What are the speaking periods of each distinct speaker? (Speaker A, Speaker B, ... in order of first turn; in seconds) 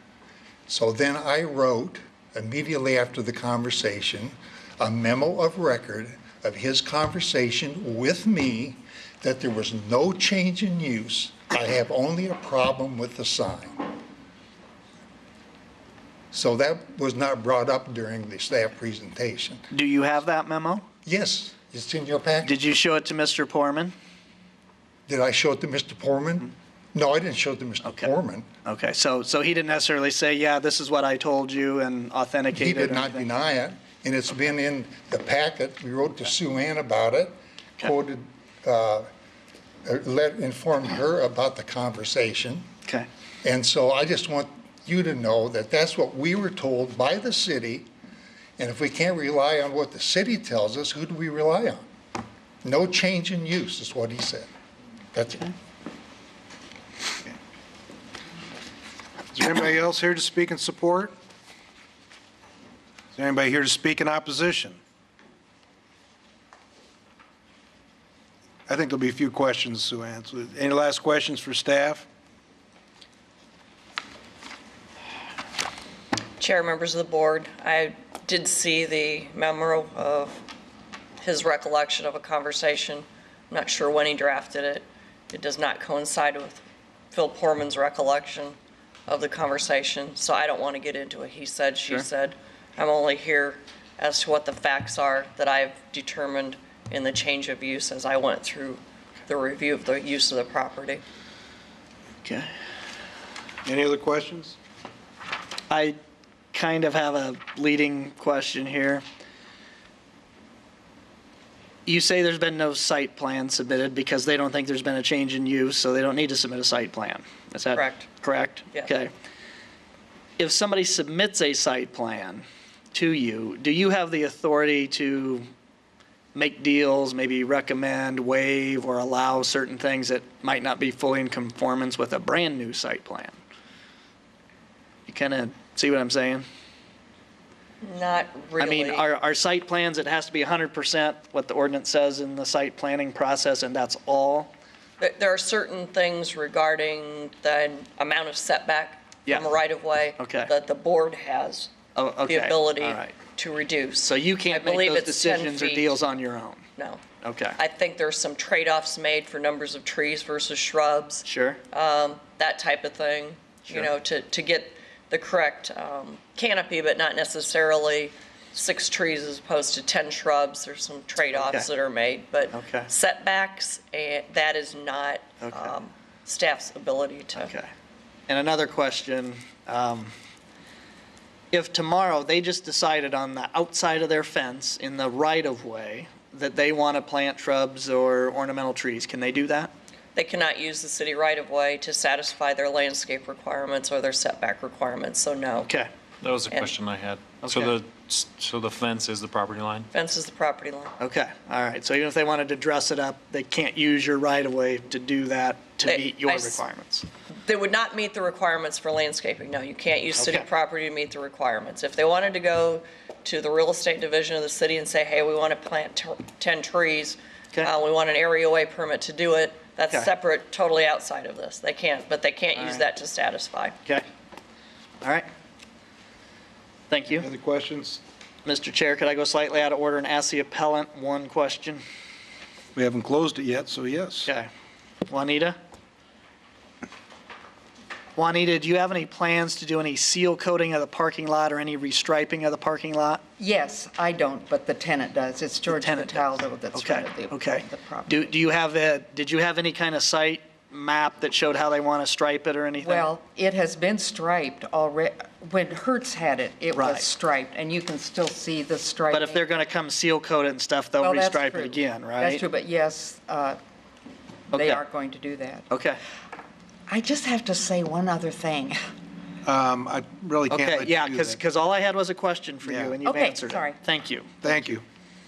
Speaker A: 0.7-13.9, 16.3-19.7, 21.1-22.6, 25.1-28.5, 32.5-39.1, 39.9-42.7, 43.4-47.9, 48.6-51.9, 52.6-54.5, 55.1-55.5
Speaker B: 19.7-20.9, 22.4-23.9, 27.8-28.1, 28.6-33.2, 102.2-102.5, 105.7-106.0, 106.5-109.0, 111.9-119.1, 120.4-125.5, 126.3-133.4, 135.1-136.4, 138.6-144.5, 150.2-150.5, 151.9-153.2, 154.1-156.6, 157.2-157.6, 161.2-161.6, 171.3-171.7, 172.5-172.9, 175.4-175.7, 177.4-177.7, 178.3-180.1, 181.5-189.7, 195.7-195.9, 197.4-197.7, 201.0-207.1, 210.2-210.4, 222.6-222.8, 226.9-227.3, 228.4-231.8, 234.2-234.5, 235.1-235.6, 238.2-243.2, 245.7-253.1, 256.7-257.1, 259.1-262.4, 264.5-264.8, 265.7-266.0, 270.5-274.3
Speaker C: 59.3-61.1, 63.1-64.8, 68.7-72.1, 103.7-104.6, 227.1-228.0, 232.8-234.3, 269.4-271.4, 272.6-273.0, 274.4-274.8
Speaker D: 76.4-80.4, 81.2-88.5, 89.1-101.0, 117.7-118.1, 137.8-139.1, 145.0-155.9, 156.8-177.5, 190.2-195.7, 199.9-200.9, 205.9-206.6, 207.3-223.8
Speaker E: 196.2-199.9
Speaker F: 243.4-248.3, 252.8-259.5, 261.0-263.6, 264.5-265.7, 266.9-268.8, 273.0-273.8